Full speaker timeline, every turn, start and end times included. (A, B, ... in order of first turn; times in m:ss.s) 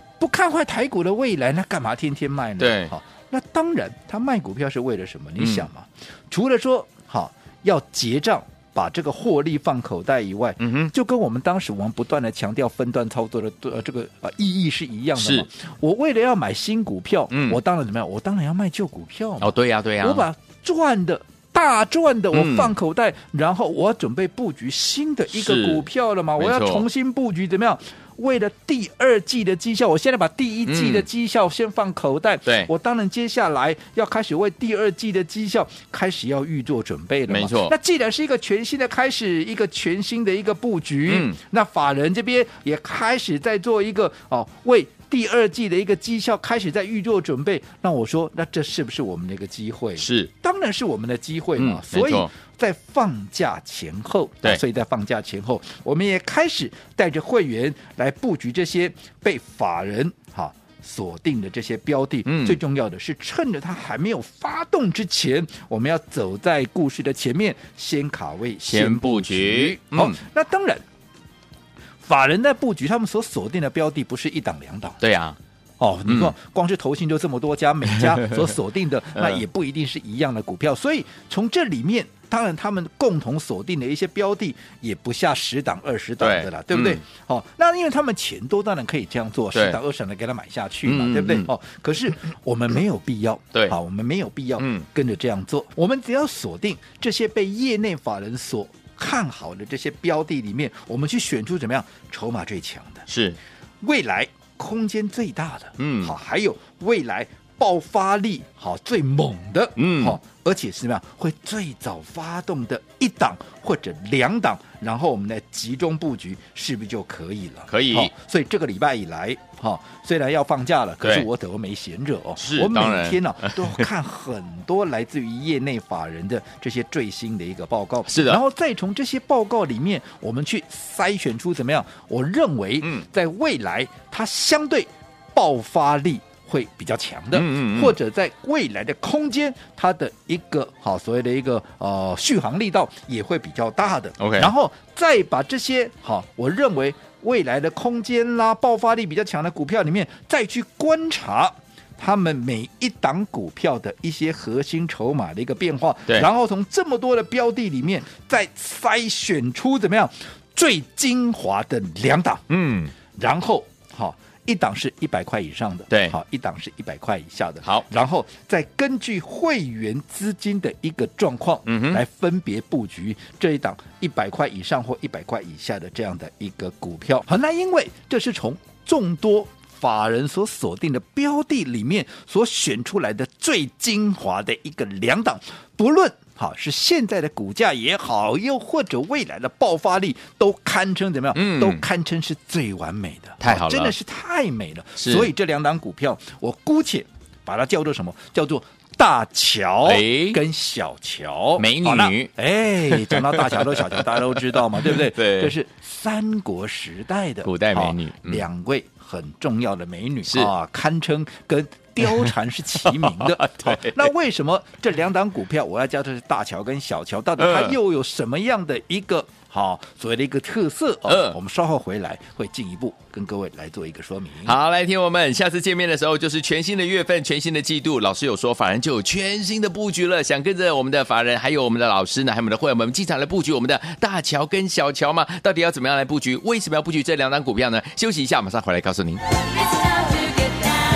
0:00.2-1:10.8 A
0:02.6-0:02.9 B
0:05.4-0:05.7 B
0:10.6-0:10.9 B
0:15.2-0:15.5 B
0:17.3-0:17.6 B
0:19.4-0:20.3 B
0:22.3-0:22.7 B
0:25.3-0:25.8 B
0:26.4-0:26.8 B
0:30.6-0:31.0 B
0:32.4-0:32.7 B
0:37.3-0:37.7 B
0:41.1-0:41.4 B
0:50.0-0:50.3 B
0:51.6-0:52.3 B
1:02.2-1:02.6 B
1:08.6-1:10.2 B
1:12.0-1:15.0 A
1:15.0-1:15.4 B
1:15.8-1:43.0 A
1:16.1-1:16.3 B
1:17.9-1:18.5 B
1:19.1-1:19.4 B
1:26.2-1:27.0 B
1:30.8-1:31.5 B
1:34.6-1:34.8 B
1:43.1-1:43.4 B
1:43.8-2:42.4 A
1:45.8-1:46.1 B
1:49.8-1:50.2 B
1:57.7-1:58.1 B
2:02.4-2:03.8 B
2:08.1-2:08.4 B
2:17.3-2:18.0 B
2:24.2-2:24.5 B
2:42.5-2:42.9 B
2:43.2-3:44.5 A
2:51.6-2:52.0 B
3:11.3-3:11.8 B
3:13.4-3:13.9 B
3:15.0-3:15.3 B
3:19.8-3:20.4 B
3:21.6-3:22.3 B
3:22.9-3:25.5 B
3:27.4-3:28.4 B
3:30.2-3:30.5 B
3:32.8-3:34.1 B
3:37.4-3:37.8 B
3:41.1-3:41.4 B
3:44.4-3:59.2 B